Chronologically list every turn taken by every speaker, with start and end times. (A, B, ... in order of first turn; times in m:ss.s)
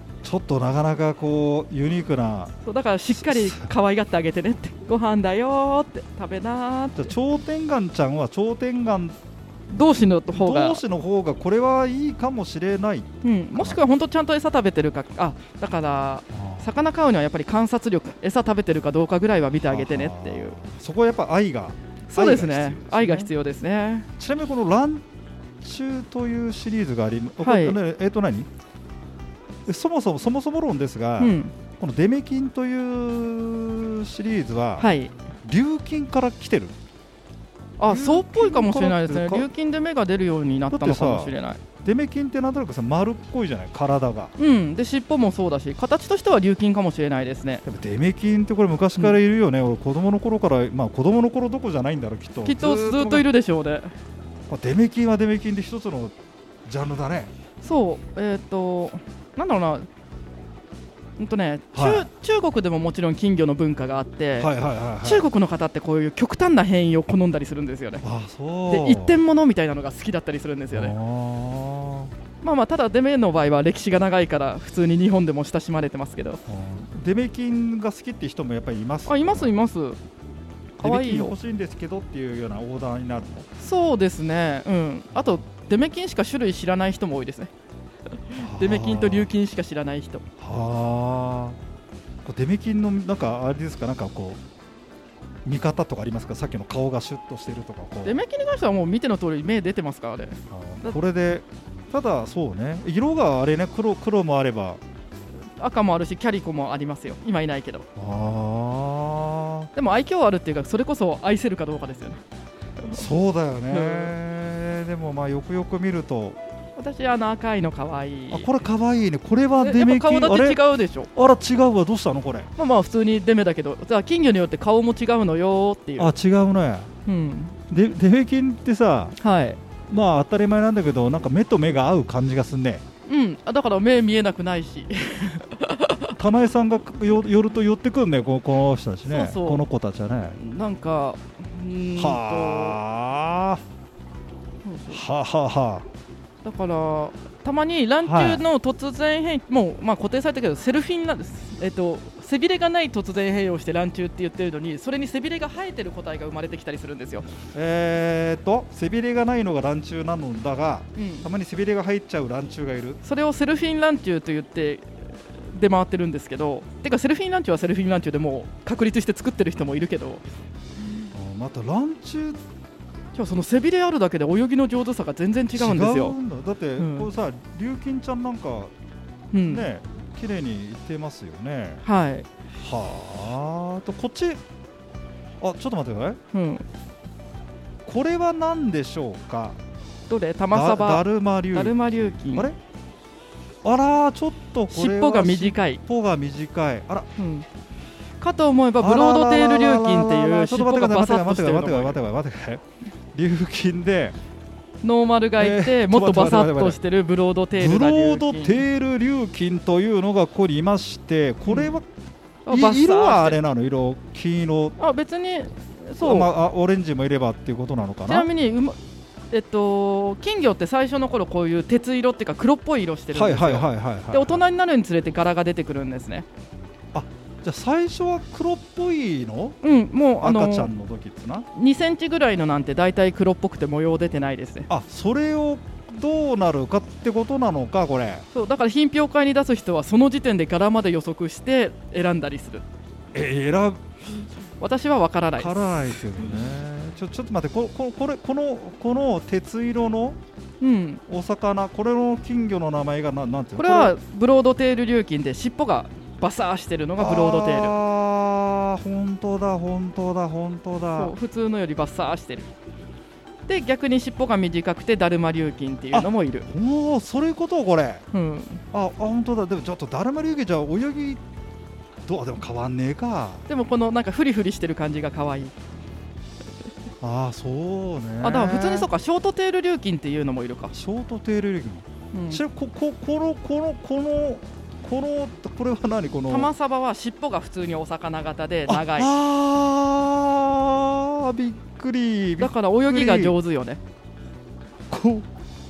0:00.2-0:02.5 A
0:02.6-0:07.1 B
0:03.2-0:03.6 A
0:07.0-0:09.2 A
0:09.7-0:10.8 B
0:10.3-0:13.8 A
0:13.2-0:20.6 B
0:16.3-0:16.7 A
0:19.6-0:23.3 A
0:22.1-0:24.1 B
0:24.2-0:25.0 A
0:25.6-0:28.5 A
0:27.4-0:27.8 B
0:29.7-0:34.9 A
0:31.2-0:31.5 B
0:34.8-0:35.1 B
0:35.4-0:36.7 A
0:37.8-0:41.6 B
0:37.8-0:39.5 A
0:40.7-0:44.3 A
0:44.4-0:47.6 B
0:47.7-0:53.3 A
0:52.4-0:53.9 B
0:54.5-0:56.1 A
0:56.7-0:57.3 A
0:57.6-0:59.9 B
1:01.2-1:08.0 B
1:01.7-1:02.1 A
1:04.4-1:05.2 A
1:08.0-1:09.2 A
1:08.7-1:10.9 B
1:10.7-1:12.1 A
1:12.4-1:16.4 B
1:16.5-1:19.5 A
1:19.1-1:20.0 B
1:20.8-1:23.5 A
1:20.8-1:21.4 B
1:23.6-1:27.5 B
1:28.2-1:30.2 B
1:28.4-1:29.3 A
1:30.4-1:31.6 A
1:32.2-1:34.4 A
1:35.4-1:38.2 A
1:38.0-1:41.0 B
1:40.5-1:44.8 A
1:45.6-1:47.9 B
1:48.0-1:49.7 A
1:49.8-1:52.2 B
1:52.8-1:53.0 B
1:52.9-1:56.4 A
1:53.7-1:54.1 B
1:56.8-1:58.6 B
1:58.3-2:00.6 A
1:59.6-2:01.1 B
2:01.2-2:02.5 A
2:02.6-2:06.1 B
2:06.0-2:06.9 A
2:07.1-2:07.6 B
2:07.7-2:09.2 A
2:09.2-2:09.6 B
2:09.9-2:12.8 A
2:13.1-2:16.2 B
2:16.2-2:20.4 A
2:19.1-2:19.7 B
2:20.4-2:22.8 B
2:22.0-2:23.6 A
2:24.6-2:25.0 B
2:24.9-2:25.8 A
2:26.4-2:37.3 B
2:28.0-2:28.4 A
2:37.5-2:43.0 A
2:41.0-2:41.3 B
2:43.0-2:50.2 B
2:51.1-2:52.4 A
2:53.1-2:56.2 B
2:55.5-2:58.7 A
2:56.8-2:57.1 B
2:59.3-2:59.7 B
2:59.4-3:01.8 A
3:01.8-3:02.3 B
3:02.6-3:04.4 A
3:05.4-3:06.2 A
3:06.3-3:06.6 B
3:07.8-3:09.6 A
3:10.1-3:12.5 B
3:10.5-3:12.6 A
3:13.6-3:17.1 A
3:14.7-3:15.8 B
3:17.2-3:17.5 B
3:18.2-3:22.0 B
3:18.8-3:22.6 A
3:23.1-3:24.2 A
3:24.8-3:28.6 B
3:25.4-3:26.8 A
3:27.6-3:31.8 A
3:31.5-3:31.7 B
3:32.5-3:33.4 B
3:32.5-3:34.8 A
3:34.8-3:36.3 B
3:36.0-3:38.3 A
3:38.1-3:38.8 B
3:39.3-3:46.3 B
3:43.1-3:44.4 A
3:46.9-3:49.6 A
3:49.6-3:50.7 B
3:50.2-3:51.5 A
3:51.5-3:54.7 B
3:54.7-3:58.2 A
3:58.3-4:02.6 B
4:03.1-4:03.8 A
4:04.6-4:06.2 B
4:05.4-4:10.2 A
4:10.6-4:11.0 B
4:11.1-4:14.0 A
4:13.6-4:17.8 B
4:17.0-4:21.1 A
4:21.0-4:22.5 B
4:23.5-4:26.5 B
4:25.9-4:28.0 A
4:28.1-4:28.6 B
4:28.7-4:31.2 A
4:32.1-4:33.4 A
4:33.5-4:35.5 B
4:37.0-4:38.9 A
4:38.2-4:40.7 B
4:40.7-4:46.5 A
4:42.1-4:42.4 B
4:46.3-4:49.1 B
4:48.7-4:53.4 A
4:52.4-4:53.8 B
4:54.9-4:55.3 A